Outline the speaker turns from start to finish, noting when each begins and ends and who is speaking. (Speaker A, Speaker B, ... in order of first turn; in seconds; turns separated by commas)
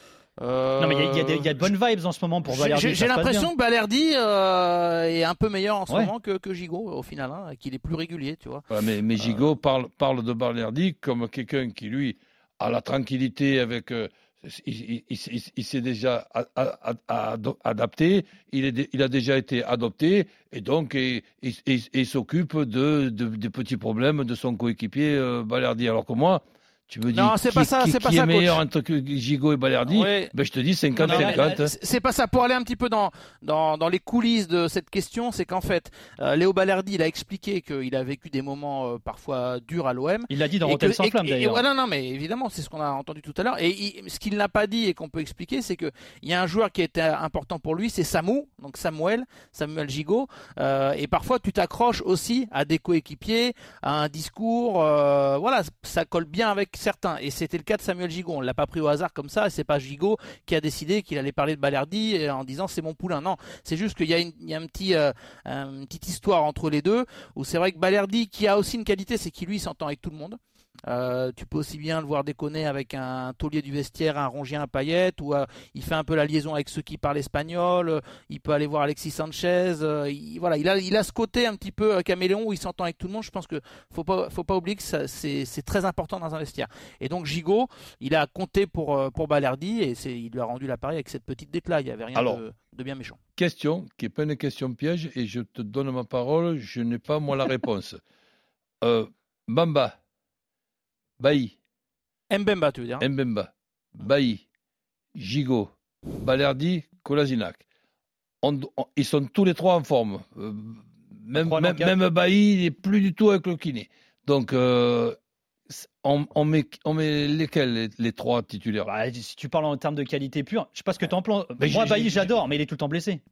Speaker A: 0.4-1.7, Speaker B: 0.8-3.5, Speaker A: 2.5-8.7, Speaker C: 8.7-31.7, Speaker A: 9.2-9.5, Speaker A: 27.1-28.6, Speaker A: 29.9-30.3, Speaker A: 31.0-93.2, Speaker B: 31.0-31.5, Speaker B: 40.3-41.6, Speaker C: 92.2-92.4, Speaker C: 93.4-98.0, Speaker C: 98.8-100.0, Speaker C: 101.2-101.6, Speaker A: 102.3-103.1, Speaker C: 103.0-104.4, Speaker C: 105.2-105.7, Speaker C: 106.2-107.6, Speaker C: 108.4-115.2, Speaker B: 111.4-111.9, Speaker C: 115.7-118.9, Speaker B: 118.9-123.2, Speaker C: 121.6-122.4